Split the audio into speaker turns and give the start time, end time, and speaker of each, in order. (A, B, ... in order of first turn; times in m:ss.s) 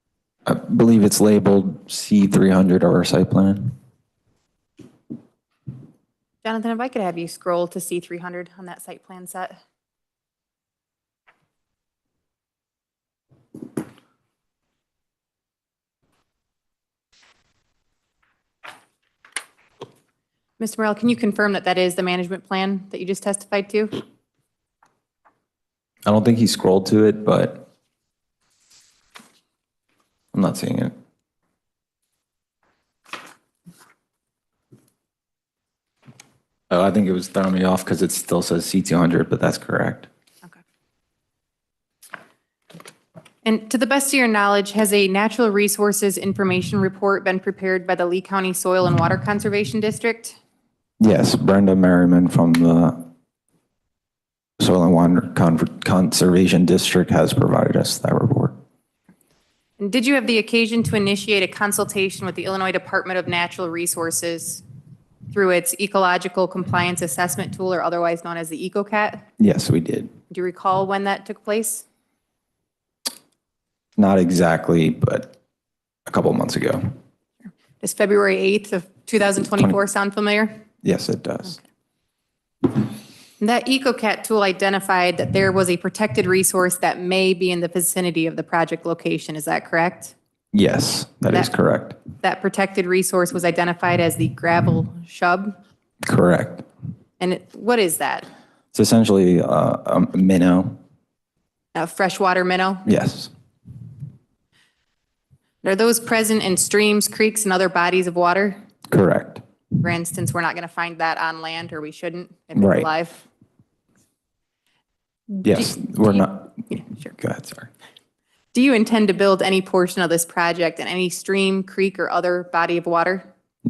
0:00.4-0:03.7 A
0:06.4-0:09.6 B
0:20.6-0:24.0 B
0:26.0-0:27.7 A
0:30.3-0:30.9 A
0:36.7-0:40.1 A
0:43.4-0:50.4 B
0:51.0-0:53.1 A
0:54.6-0:58.5 A
0:59.8-1:04.6 B
1:05.3-1:09.2 B
1:09.4-1:10.1 A
1:10.3-1:11.8 B
1:14.0-1:15.3 A
1:16.0-1:16.9 A
1:17.8-1:20.6 B
1:20.8-1:21.6 A
1:23.4-1:30.1 B
1:30.5-1:32.0 A
1:32.2-1:35.6 B
1:36.0-1:36.6 A
1:37.2-1:38.3 B
1:38.7-1:40.8 A
1:41.7-1:42.8 B
1:42.8-1:43.3 A
1:45.6-1:48.6 B
1:48.9-1:49.4 A
1:49.8-1:53.2 B
1:52.5-1:52.9 A
1:55.3-1:57.1 B
1:55.4-1:56.5 A
1:57.1-1:57.7 A
1:58.5-2:03.3 B